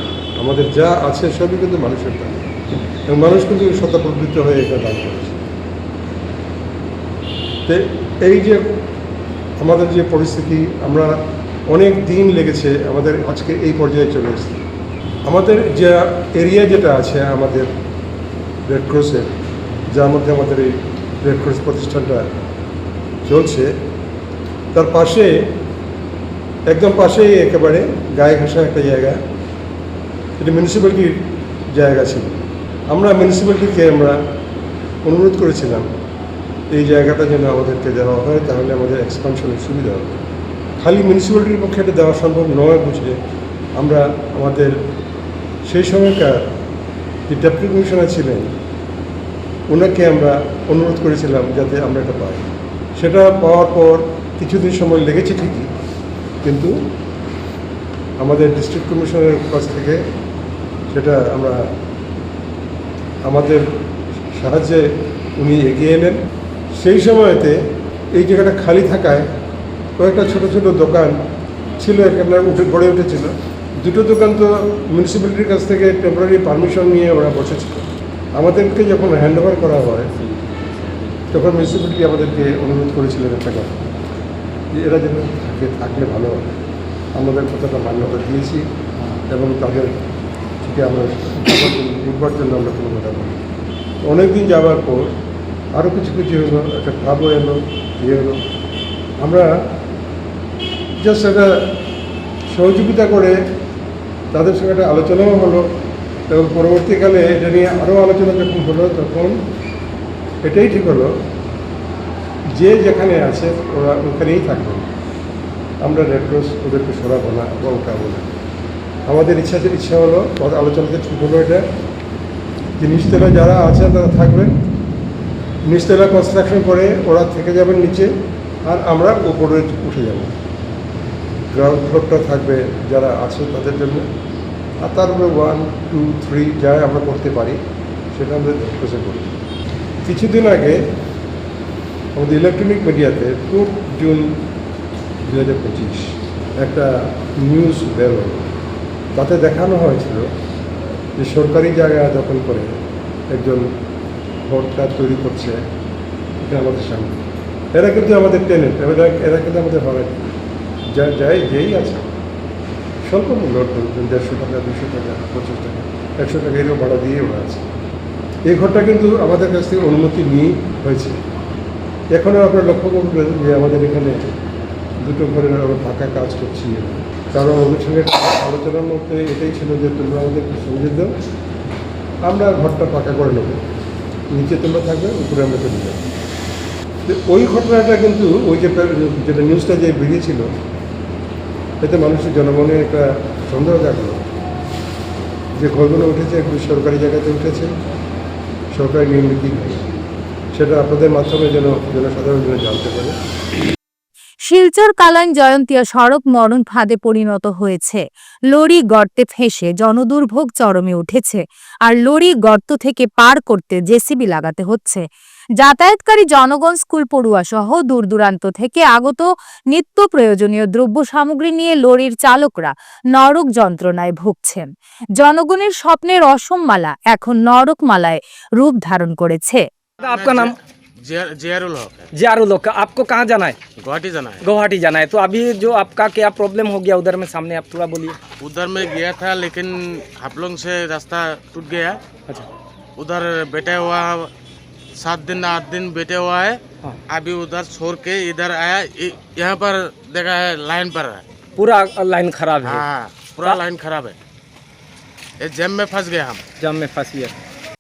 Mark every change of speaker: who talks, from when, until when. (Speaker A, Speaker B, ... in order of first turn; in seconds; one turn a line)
Speaker A: 0.4-2.5
Speaker A: 3.1-5.4
Speaker A: 7.7-8.6
Speaker A: 9.6-11.1
Speaker A: 11.7-14.6
Speaker A: 15.3-17.7
Speaker A: 18.7-19.3
Speaker A: 20.0-20.7
Speaker A: 21.2-22.2
Speaker A: 23.3-23.7
Speaker A: 24.7-25.3
Speaker A: 26.7-29.2
Speaker A: 30.4-31.1
Speaker A: 31.7-34.2
Speaker A: 35.0-35.9
Speaker A: 36.7-40.2
Speaker A: 40.8-43.2
Speaker A: 43.8-44.7
Speaker A: 45.7-46.4
Speaker A: 47.3-48.5
Speaker A: 49.7-55.7
Speaker A: 56.4-56.7
Speaker A: 58.2-60.0
Speaker A: 60.9-61.6
Speaker A: 63.2-63.6
Speaker A: 64.4-64.8
Speaker A: 65.4-66.2
Speaker A: 66.8-67.6
Speaker A: 68.2-69.2
Speaker A: 70.0-71.1
Speaker A: 71.8-73.3
Speaker A: 73.8-77.8
Speaker A: 78.4-80.1
Speaker A: 81.3-83.8
Speaker A: 84.8-86.6
Speaker A: 87.2-88.6
Speaker A: 89.3-90.0
Speaker A: 90.6-93.4
Speaker A: 94.1-95.1
Speaker A: 95.8-98.4
Speaker A: 99.2-99.5
Speaker A: 101.0-101.5
Speaker A: 102.5-103.4
Speaker A: 104.3-105.6
Speaker A: 106.3-109.3
Speaker A: 110.5-111.1
Speaker A: 112.6-114.8
Speaker A: 115.8-118.4
Speaker A: 119.1-121.6
Speaker A: 122.8-124.5
Speaker A: 125.7-128.1
Speaker A: 128.7-130.3
Speaker A: 131.5-134.1
Speaker A: 134.8-137.6
Speaker A: 138.1-139.4
Speaker A: 140.1-140.8
Speaker A: 142.2-144.2
Speaker A: 145.3-146.1
Speaker A: 146.6-146.9
Speaker A: 147.4-148.5
Speaker A: 149.2-150.2
Speaker A: 151.2-152.7
Speaker A: 153.3-153.6
Speaker A: 154.5-155.6
Speaker A: 156.4-157.2
Speaker A: 157.8-160.2
Speaker A: 161.0-162.1
Speaker A: 163.1-167.7
Speaker A: 168.5-171.2
Speaker A: 172.1-174.2
Speaker A: 175.1-181.1
Speaker A: 182.3-183.6
Speaker A: 184.3-186.0
Speaker A: 187.1-190.4
Speaker A: 191.8-194.2
Speaker A: 195.6-197.7
Speaker A: 198.8-199.9
Speaker A: 200.6-203.1
Speaker B: 204.5-215.1
Speaker B: 215.6-229.6
Speaker C: 230.0-230.6
Speaker D: 230.1-232.1
Speaker C: 232.2-233.6
Speaker D: 233.8-234.4
Speaker C: 234.4-238.2
Speaker D: 238.4-242.0
Speaker D: 243.0-244.3
Speaker D: 245.0-251.2
Speaker C: 251.6-252.9
Speaker D: 252.6-254.1
Speaker D: 255.4-256.4
Speaker C: 256.6-257.3